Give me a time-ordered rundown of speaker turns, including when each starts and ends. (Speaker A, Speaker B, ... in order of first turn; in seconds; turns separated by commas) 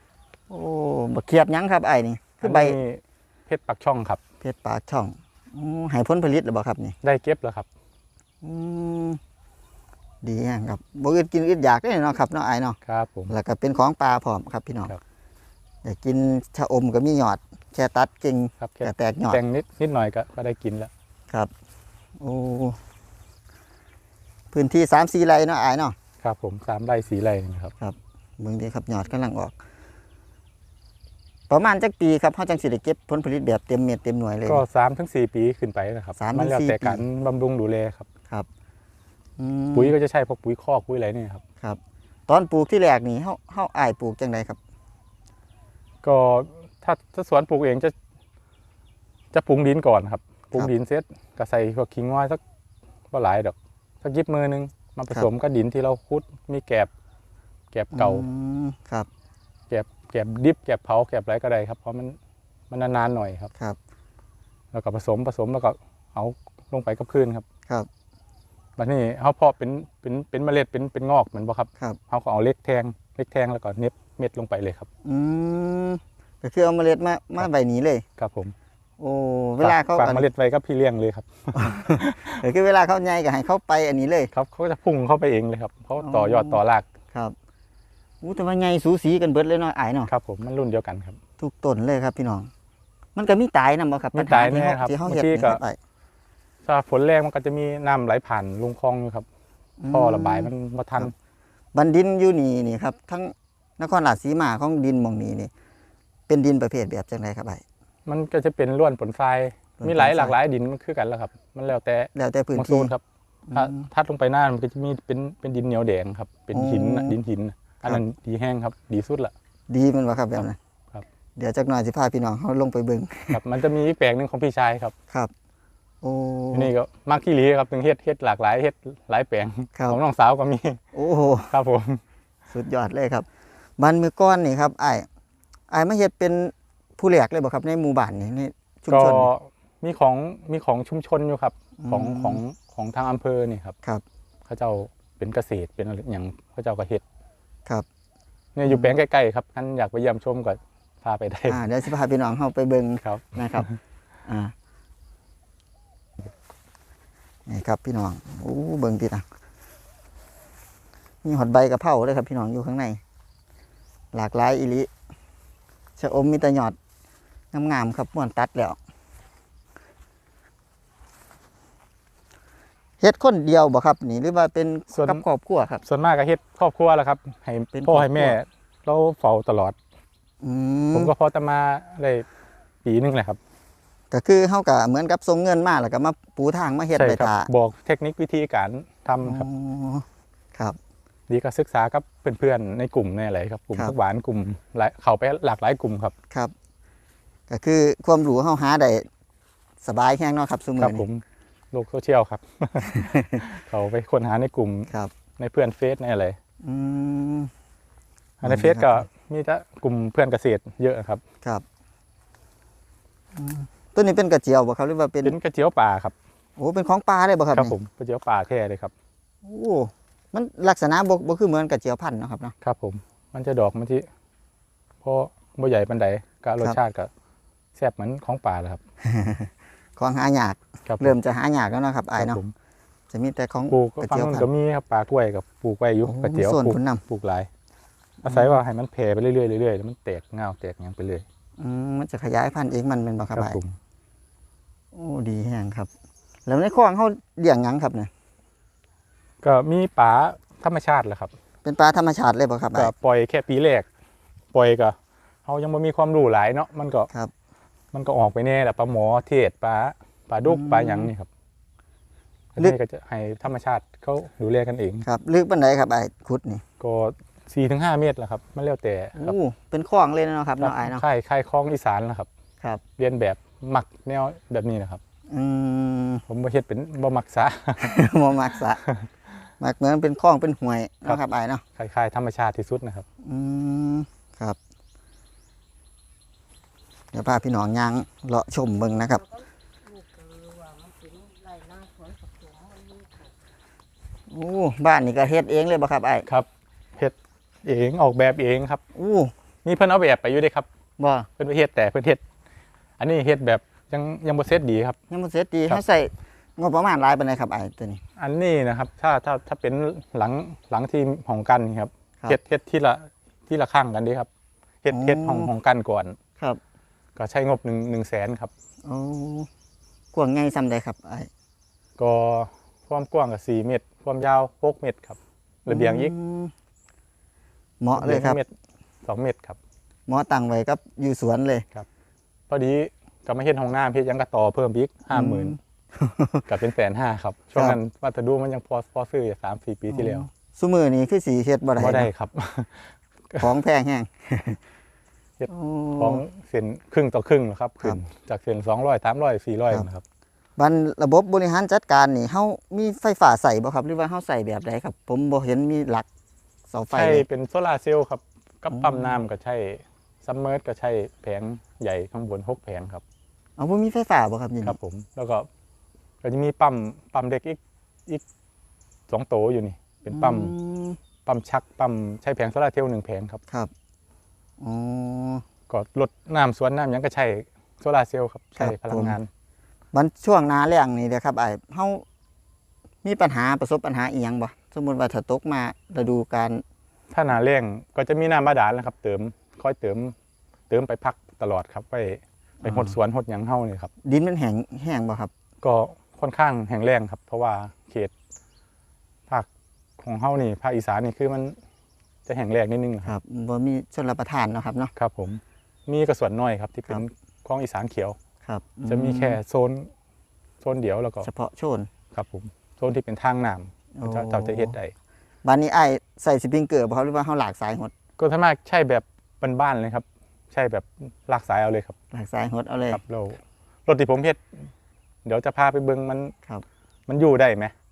Speaker A: 0.5-2.8, Speaker B: 2.4-4.2, Speaker A: 4.4-7.0, Speaker B: 7.0-7.7, Speaker A: 8.4-9.2, Speaker A: 10.2-12.8, Speaker B: 12.8-13.3, Speaker A: 13.3-14.9, Speaker A: 15.8-19.4, Speaker B: 18.6-20.9, Speaker A: 22.2-22.8, Speaker A: 24.5-26.0, Speaker B: 26.2-27.7, Speaker A: 27.8-29.6, Speaker A: 31.5-34.6, Speaker B: 34.5-38.1, Speaker A: 36.2-37.0, Speaker A: 39.4-39.9, Speaker B: 39.8-41.4, Speaker A: 41.6-44.6, Speaker B: 46.0-47.9, Speaker B: 49.3-52.4, Speaker B: 53.1-56.9, Speaker B: 57.7-58.3, Speaker A: 57.9-59.1, Speaker B: 59.7-62.2, Speaker B: 62.7-63.5, Speaker B: 64.7-67.5, Speaker B: 68.8-74.9, Speaker A: 75.0-78.0, Speaker B: 78.2-78.5, Speaker A: 79.0-80.2, Speaker B: 79.6-82.4, Speaker A: 81.5-84.3, Speaker B: 84.3-86.9, Speaker A: 86.0-86.6, Speaker A: 88.2-90.1, Speaker B: 90.1-91.2, Speaker A: 91.4-92.5, Speaker A: 93.2-95.8, Speaker B: 94.2-95.6, Speaker B: 96.7-99.3, Speaker A: 99.8-101.1, Speaker B: 99.9-101.1, Speaker A: 101.7-105.5, Speaker A: 106.3-107.6, Speaker B: 108.1-119.3, Speaker A: 109.8-110.4, Speaker A: 112.2-112.9, Speaker A: 113.5-113.8, Speaker A: 116.5-117.2, Speaker A: 119.7-120.6, Speaker A: 121.4-123.4, Speaker B: 123.3-124.9, Speaker A: 126.0-126.7, Speaker B: 126.5-130.8, Speaker A: 130.9-131.5, Speaker B: 131.5-132.0, Speaker A: 132.5-133.3, Speaker A: 133.8-135.1, Speaker A: 135.7-139.3, Speaker B: 138.9-143.8, Speaker A: 141.8-142.4, Speaker B: 144.5-147.0, Speaker B: 148.6-151.6, Speaker A: 148.7-148.9, Speaker A: 151.5-153.7, Speaker B: 153.0-153.8, Speaker A: 154.3-154.5, Speaker A: 157.5-159.3, Speaker A: 161.2-163.0, Speaker A: 164.1-164.9, Speaker A: 166.0-166.8, Speaker A: 167.5-168.8, Speaker A: 173.0-175.8, Speaker B: 174.9-175.2, Speaker B: 175.8-179.8, Speaker A: 177.7-178.4, Speaker A: 180.4-181.1, Speaker B: 180.9-182.3, Speaker B: 182.8-183.4, Speaker A: 184.1-187.5, Speaker B: 187.0-189.5, Speaker A: 189.2-190.8, Speaker B: 191.3-196.1, Speaker A: 197.5-199.1, Speaker A: 199.8-201.1, Speaker B: 200.8-206.4, Speaker A: 202.8-203.4, Speaker A: 206.6-207.5, Speaker B: 208.4-211.2, Speaker A: 208.4-209.1, Speaker A: 213.3-215.4, Speaker B: 215.2-216.2, Speaker A: 216.6-217.7, Speaker B: 217.5-218.9, Speaker A: 219.4-222.6, Speaker B: 222.6-224.1, Speaker B: 225.0-227.1, Speaker B: 227.8-228.8, Speaker A: 229.0-232.4, Speaker B: 230.9-231.2, Speaker B: 232.2-232.5, Speaker A: 233.1-234.5, Speaker B: 233.7-237.5, Speaker A: 236.1-237.0, Speaker B: 238.2-241.2, Speaker A: 238.2-238.6, Speaker A: 241.6-243.6, Speaker B: 243.3-243.8, Speaker A: 244.9-245.9, Speaker A: 246.5-248.1, Speaker B: 249.4-251.3, Speaker A: 251.6-252.9, Speaker B: 252.8-253.9, Speaker B: 254.5-257.1, Speaker B: 257.9-261.3, Speaker A: 260.5-261.1, Speaker B: 262.6-265.1, Speaker A: 265.1-266.6, Speaker B: 266.8-269.4, Speaker A: 269.2-271.0, Speaker B: 270.6-272.3, Speaker B: 273.0-275.0, Speaker A: 275.3-276.2, Speaker B: 276.3-278.0, Speaker A: 277.8-278.8, Speaker B: 278.8-279.1, Speaker A: 279.6-281.6, Speaker B: 281.8-283.1, Speaker A: 283.2-284.6, Speaker A: 287.1-289.2, Speaker C: 289.2-293.3, Speaker A: 294.3-296.3, Speaker B: 296.3-298.8, Speaker A: 298.9-299.3, Speaker B: 299.6-300.7, Speaker A: 301.0-301.3, Speaker B: 301.4-302.2, Speaker B: 303.0-305.0, Speaker A: 305.1-308.0, Speaker B: 308.2-314.3, Speaker B: 314.8-316.2, Speaker A: 314.9-315.5, Speaker B: 317.2-318.5, Speaker A: 318.9-319.5, Speaker A: 320.1-321.3, Speaker B: 322.0-326.1, Speaker A: 325.7-326.5, Speaker A: 327.8-328.4, Speaker B: 327.9-328.5, Speaker B: 329.1-329.6, Speaker A: 330.1-331.7, Speaker B: 332.5-335.6, Speaker A: 335.1-336.5, Speaker B: 336.5-340.3, Speaker A: 339.9-342.1, Speaker B: 341.8-343.5, Speaker A: 343.4-344.6, Speaker B: 345.4-350.0, Speaker A: 345.5-346.2, Speaker A: 350.6-356.1, Speaker A: 356.7-357.2, Speaker B: 356.9-363.0, Speaker A: 358.7-359.2, Speaker A: 363.6-364.8, Speaker B: 364.6-365.5, Speaker B: 366.2-368.2, Speaker B: 369.1-370.6, Speaker A: 370.1-371.0, Speaker B: 371.2-373.4, Speaker A: 374.6-375.4, Speaker B: 375.7-379.3, Speaker A: 378.6-379.2, Speaker A: 379.9-382.0, Speaker A: 383.0-386.6, Speaker B: 387.1-390.1, Speaker B: 390.7-393.9, Speaker A: 392.6-393.0, Speaker A: 394.0-395.3, Speaker B: 395.6-398.1, Speaker B: 400.0-401.6, Speaker B: 402.3-403.1, Speaker A: 403.1-404.9, Speaker B: 405.0-408.2, Speaker A: 408.4-409.4, Speaker B: 408.9-409.9, Speaker B: 410.6-411.3, Speaker A: 411.2-411.9, Speaker B: 412.1-414.9, Speaker A: 414.0-414.8, Speaker A: 415.4-417.9, Speaker B: 418.2-421.9, Speaker A: 422.1-423.0, Speaker B: 422.9-424.4, Speaker B: 425.2-426.3, Speaker B: 427.1-427.7